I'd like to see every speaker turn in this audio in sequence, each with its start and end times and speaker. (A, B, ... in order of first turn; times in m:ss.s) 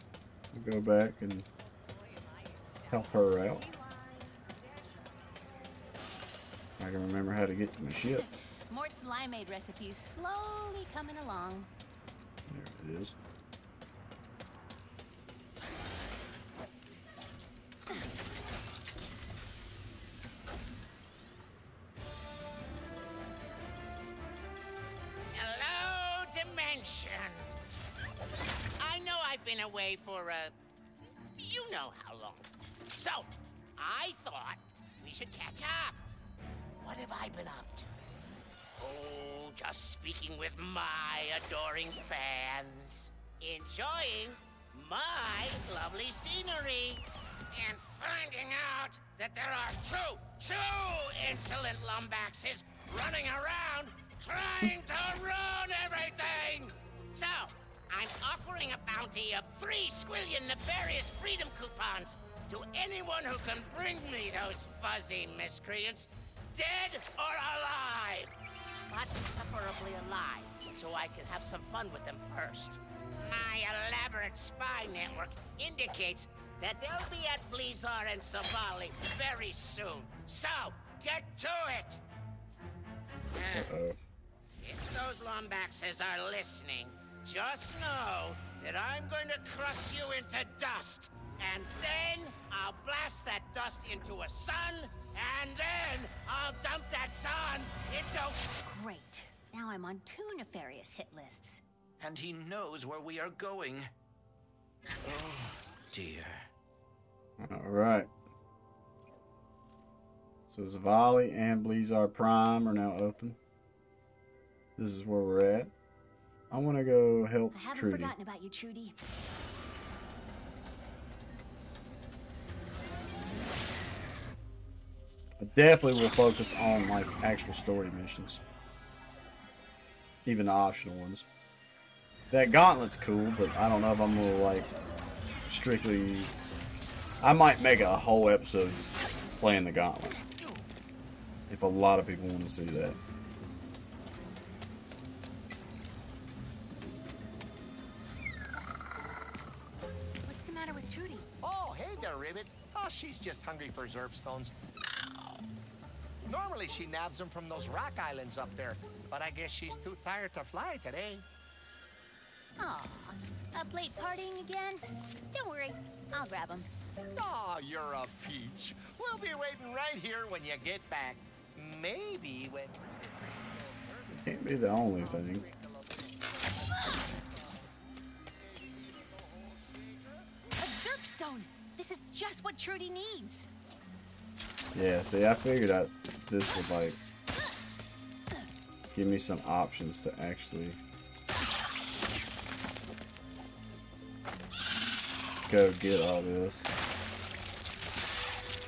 0:00.5-0:01.5 A
0:02.9-0:03.7 A
0:06.8-0:08.3 A
0:08.2-0:11.7 B
0:12.5-0:13.2 A
0:25.4-0:27.5 C
0:28.8-0:30.5 C
0:31.4-0:36.0 C
0:36.8-0:38.1 C
0:38.8-1:08.3 C
1:08.9-1:22.0 C
1:23.4-1:23.7 C
1:23.5-1:24.0 A
1:24.6-1:38.4 C
1:38.6-1:41.6 B
1:42.0-1:43.9 D
1:45.0-1:46.5 D
1:47.4-1:48.1 A
1:50.5-1:53.4 A
1:54.8-1:55.7 A
1:56.5-1:58.1 A
1:57.5-1:59.0 B
2:05.4-2:08.4 A
2:10.2-2:11.2 A
2:12.3-2:14.7 A
2:15.5-2:16.3 A
2:17.2-2:18.8 A
2:19.4-2:20.2 A
2:21.5-2:23.0 A
2:30.2-2:31.3 B
2:31.4-2:34.5 E
2:36.3-2:41.2 E
2:42.6-2:46.7 B
2:47.2-3:00.3 E
2:54.1-2:55.4 A
3:00.6-3:03.5 B
3:04.7-3:07.0 A
3:08.9-3:10.8 A
3:15.5-3:16.7 A